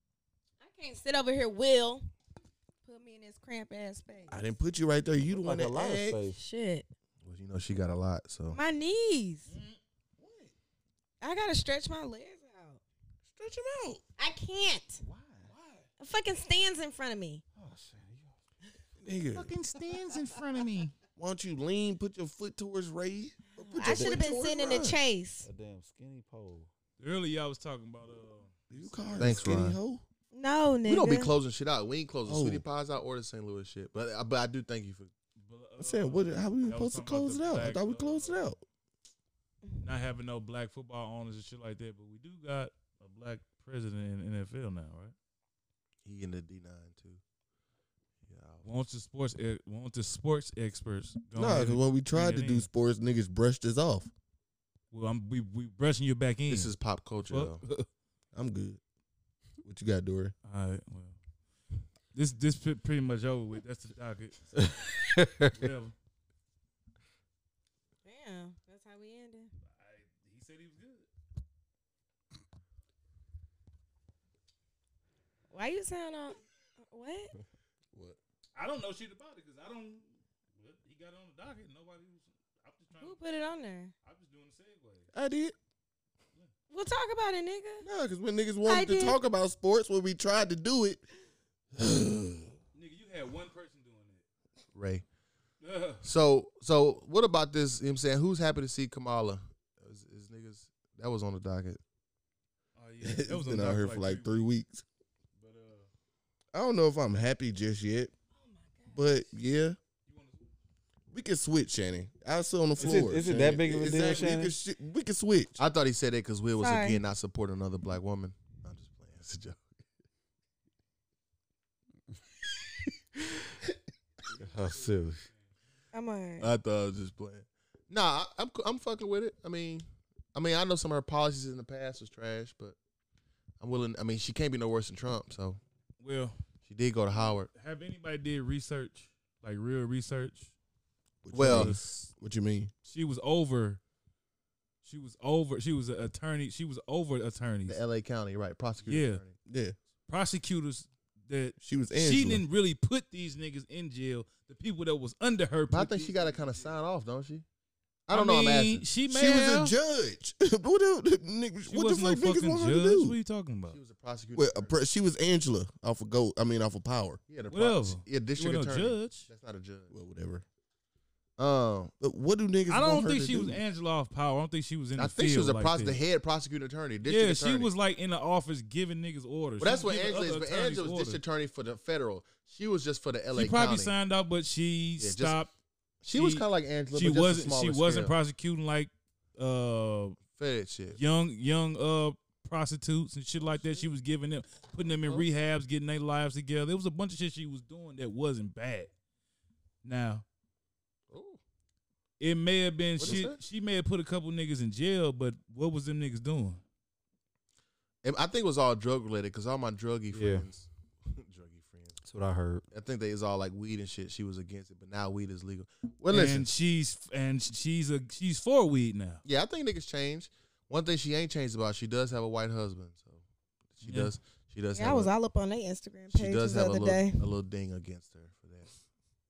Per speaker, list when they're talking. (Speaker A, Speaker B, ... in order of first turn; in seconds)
Speaker A: 0.6-2.0, 2.8-4.5, 6.3-6.9, 8.5-9.5, 11.2-12.8, 14.2-15.0, 16.0-17.4, 23.7-25.5, 30.3-31.3, 68.0-69.5, 75.5-77.3, 83.0-83.9, 86.7-87.8, 88.7-89.2, 108.4-109.0, 116.6-117.0, 125.9-126.5, 224.7-227.2
Speaker B: 4.3-6.2, 13.3-14.0, 19.0-19.5, 21.2-25.0, 28.7-30.0, 32.2-32.6, 35.8-38.6, 51.4-54.1, 58.3-58.8, 59.6-60.3, 77.9-78.2, 85.1-85.5, 87.8-91.0, 91.8-92.5, 103.0-104.8, 106.5-108.1, 108.9-109.8, 111.1-115.6, 141.2-142.7, 149.4-149.8, 151.6-152.4, 159.1-163.2, 164.3-167.2, 169.9-170.4, 172.0-173.6
Speaker C: 5.2-6.4, 15.0-15.5, 17.6-18.4, 25.4-26.7, 64.6-65.6, 112.8-114.5, 124.3-125.2, 210.1-210.4, 212.0-212.6
Speaker D: 7.2-8.6, 29.2-29.8, 30.8-35.1, 46.0-47.2, 48.2-48.6, 56.5-57.6, 94.7-95.0, 96.0-101.8, 112.8-113.4, 115.6-119.6, 126.4-132.8, 133.6-135.6, 136.6-137.5, 141.3-141.8, 147.7-149.3, 155.7-157.4, 158.1-158.8, 163.7-164.7, 167.3-169.9, 171.4-171.9, 175.0-177.7, 179.6-183.9, 185.0-185.4, 186.0-188.1, 190.3-191.0, 193.4-193.9, 201.1-201.4, 203.0-203.4, 208.0-212.0, 212.7-216.5, 219.2-223.2, 223.7-225.1, 226.1-228.7
Speaker E: 9.5-9.8, 15.5-15.8, 19.3-20.9, 27.0-29.5, 35.4-38.6, 39.8-45.1, 48.6-52.7, 54.9-56.7, 57.3-57.9, 60.4-61.2, 62.1-64.6, 65.4-65.9, 69.7-71.1, 78.5-83.2, 84.0-85.1, 92.7-94.2, 95.6-96.0, 102.8-104.5, 105.3-105.9, 110.0-110.4, 124.3-125.5, 136.0-136.4, 137.1-140.5, 141.4-142.1, 142.8-143.8, 144.8-147.8, 148.8-149.2, 150.1-156.7, 158.1-159.7, 161.7-163.8, 167.5-169.3, 172.7-176.0, 177.0-181.2, 183.3-185.5, 186.1-190.2, 190.9-198.9, 199.8-200.2, 202.2-206.6, 216.1-219.2, 223.8-224.1